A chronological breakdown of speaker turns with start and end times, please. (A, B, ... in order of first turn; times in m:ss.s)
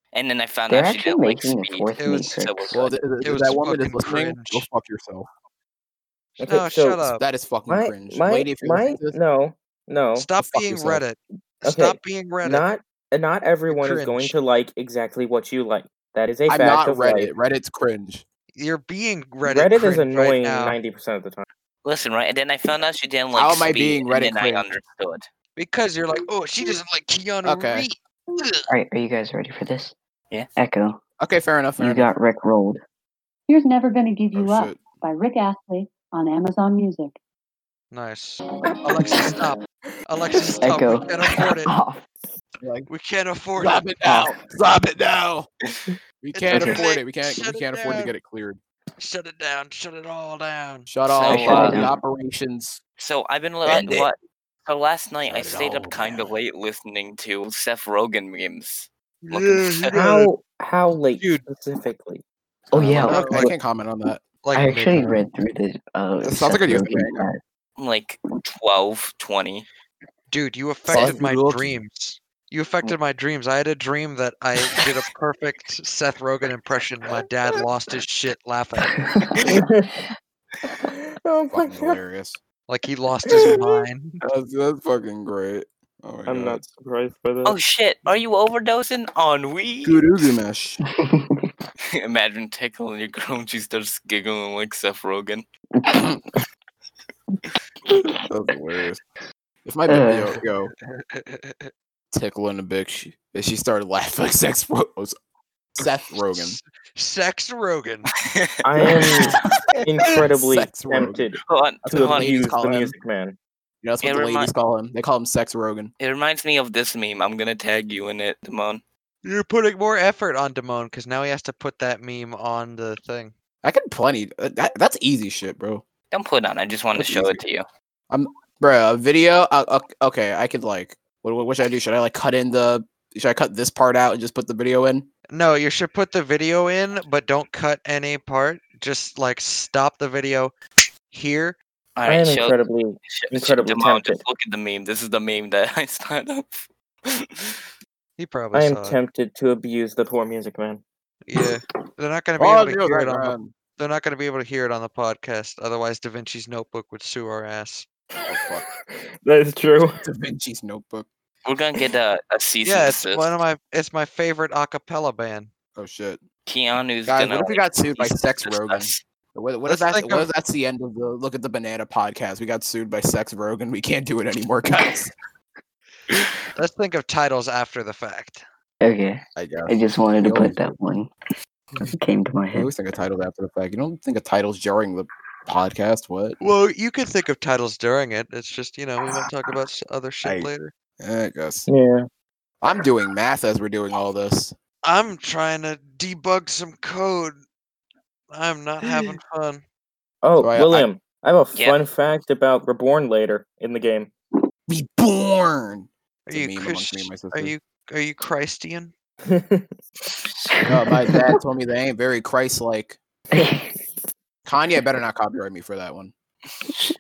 0:00.1-0:03.0 A
0:00.7-0:02.8 B
0:02.0-0:02.4 C
0:02.7-0:05.3 D
0:03.2-0:04.7 C
0:06.4-0:07.2 C
0:06.4-0:07.1 E
0:07.1-0:09.2 D
0:07.7-0:10.3 E
0:10.2-0:12.7 C
0:10.4-0:11.0 D
0:11.6-0:17.3 E
0:13.7-0:14.4 C
0:16.5-0:18.2 D
0:18.5-0:20.8 C
0:19.4-0:21.4 E
0:21.8-0:25.3 A
0:23.3-0:24.7 D
0:25.6-0:28.7 C
0:27.4-0:27.9 D
0:28.7-0:30.0 B
0:30.6-0:31.0 B
0:31.2-0:32.1 D
0:31.8-0:32.8 B
0:33.5-0:37.2 F
0:34.3-0:34.9 D
0:37.9-0:41.7 C
0:40.6-0:42.0 B
0:42.6-0:42.9 D
0:42.9-0:43.9 C
0:43.6-0:45.5 D
0:44.0-0:44.3 B
0:46.2-0:48.6 D
0:46.3-0:48.2 C
0:46.5-0:46.8 E
0:49.0-0:50.9 C
0:50.9-0:52.8 D
0:51.1-0:51.9 A
0:51.3-0:52.0 B
0:53.0-0:59.9 A
0:53.7-0:54.1 D
0:55.3-0:56.4 D
0:59.2-1:00.3 C
0:59.9-1:02.2 E
1:01.2-1:01.4 C
1:02.7-1:03.5 B
1:02.7-1:04.2 D
1:03.0-1:03.5 C
1:04.4-1:05.2 C
1:04.5-1:07.4 B
1:06.2-1:07.3 D
1:07.8-1:09.7 A
1:10.3-1:19.0 C
1:10.9-1:11.8 D
1:19.5-1:19.9 E
1:20.8-1:22.0 E
1:21.5-1:22.4 D
1:22.7-1:24.2 C
1:23.2-1:23.8 E
1:24.2-1:26.7 D
1:26.3-1:27.6 E
1:27.4-1:30.2 A
1:29.8-1:30.8 D
1:31.0-1:31.5 B
1:31.9-1:35.4 A
1:35.8-1:36.2 B
1:38.2-1:39.0 D
1:39.6-1:40.7 D
1:39.9-1:40.4 B
1:40.8-1:41.7 C
1:42.1-1:45.2 D
1:45.8-1:46.6 D
1:46.3-1:48.1 C
1:48.2-1:49.4 A
1:48.6-1:53.4 E
1:48.8-1:49.4 D
1:50.0-1:53.0 D
1:51.5-1:52.4 A
1:53.8-1:55.9 D
1:54.0-1:54.5 A
1:56.0-1:58.8 A
1:59.2-2:03.3 C
2:03.6-2:05.8 D
2:06.1-2:07.7 A
2:07.0-2:07.4 D
2:08.1-2:15.1 D
2:15.3-2:20.6 C
2:21.1-2:21.6 C
2:22.0-2:27.6 A
2:22.1-2:24.2 E
2:28.2-2:29.0 C
2:28.5-2:30.8 E
2:31.3-2:37.9 C
2:32.4-2:33.5 D
2:38.2-2:40.0 E
2:38.3-2:38.7 D
2:40.0-2:41.1 D
2:41.4-2:43.4 A
2:42.6-2:45.5 C
2:45.8-2:46.2 D
2:46.5-2:49.0 A
2:47.1-2:55.1 D
2:49.7-2:50.3 C
2:56.6-2:58.4 C
2:58.8-3:01.1 B
2:59.4-3:00.8 D
3:01.8-3:02.7 B
3:02.5-3:06.4 D
3:06.4-3:10.7 C
3:10.2-3:11.7 D
3:11.7-3:12.1 E
3:12.6-3:14.6 D
3:14.8-3:17.4 C
3:18.3-3:19.6 C
3:20.2-3:24.1 E
3:20.4-3:20.9 D
3:21.5-3:21.8 A
3:24.7-3:27.5 D
3:26.3-3:28.9 C
3:29.2-3:29.8 E
3:30.4-3:31.3 B
3:30.7-3:33.0 D
3:33.3-3:33.7 B
3:34.5-3:36.1 D